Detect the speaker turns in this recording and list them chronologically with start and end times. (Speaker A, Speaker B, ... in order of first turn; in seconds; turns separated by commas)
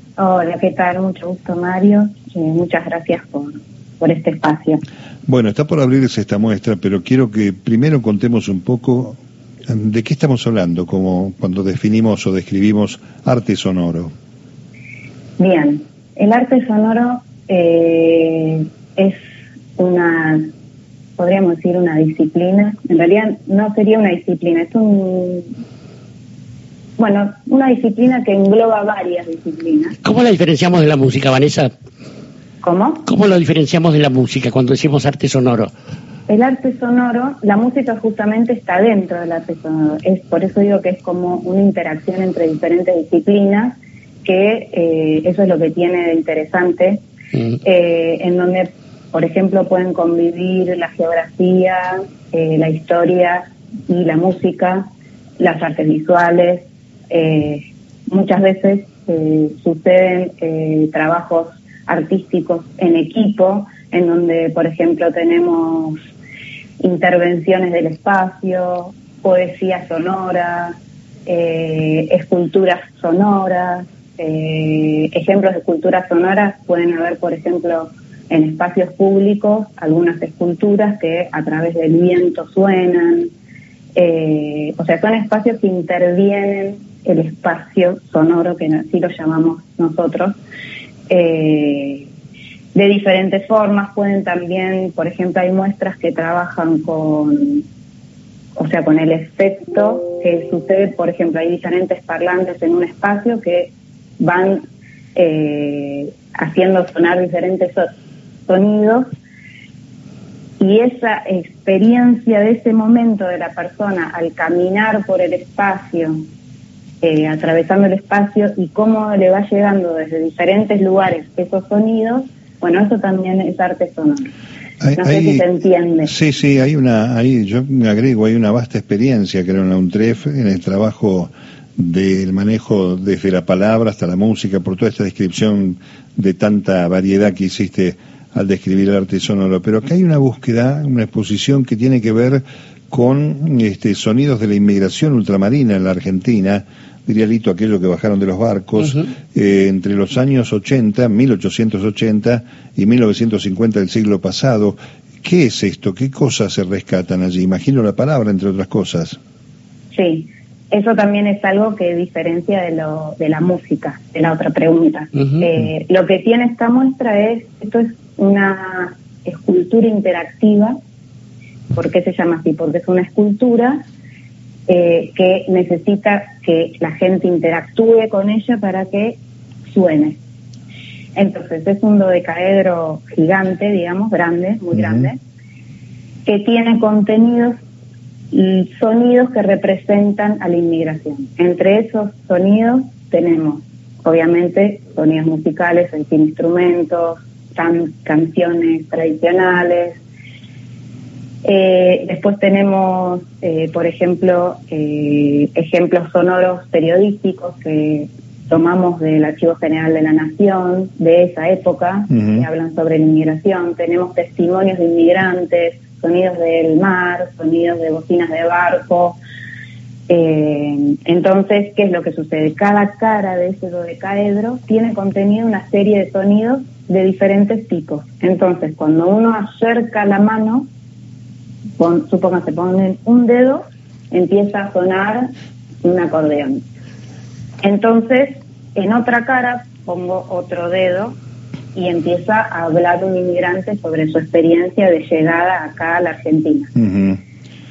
Speaker A: 0.2-4.8, Speaker B: 5.3-14.1, Speaker A: 15.4-19.2, Speaker A: 19.8-20.5, Speaker A: 21.2-25.5, Speaker A: 27.0-30.0, Speaker C: 30.0-31.7, Speaker A: 32.6-33.0, Speaker C: 33.0-35.7, Speaker A: 36.3-47.0, Speaker A: 47.6-54.9, Speaker A: 55.4-66.0, Speaker A: 66.8-83.3, Speaker A: 84.0-90.4, Speaker A: 91.1-92.1, Speaker A: 92.7-97.7, Speaker A: 98.6-104.6, Speaker A: 105.2-107.9, Speaker A: 108.5-109.1, Speaker A: 110.6-116.2, Speaker A: 117.0-124.3, Speaker B: 124.8-125.5, Speaker A: 125.0-126.1, Speaker B: 126.0-159.2, Speaker A: 159.9-170.8, Speaker A: 171.7-173.8, Speaker A: 174.7-180.2, Speaker A: 181.1-185.2, Speaker A: 186.2-187.5, Speaker A: 188.3-200.0, Speaker A: 201.4-219.2, Speaker A: 220.1-230.7, Speaker A: 231.8-235.3, Speaker A: 235.8-236.6, Speaker A: 237.6-241.2, Speaker A: 241.7-246.7, Speaker B: 246.8-247.2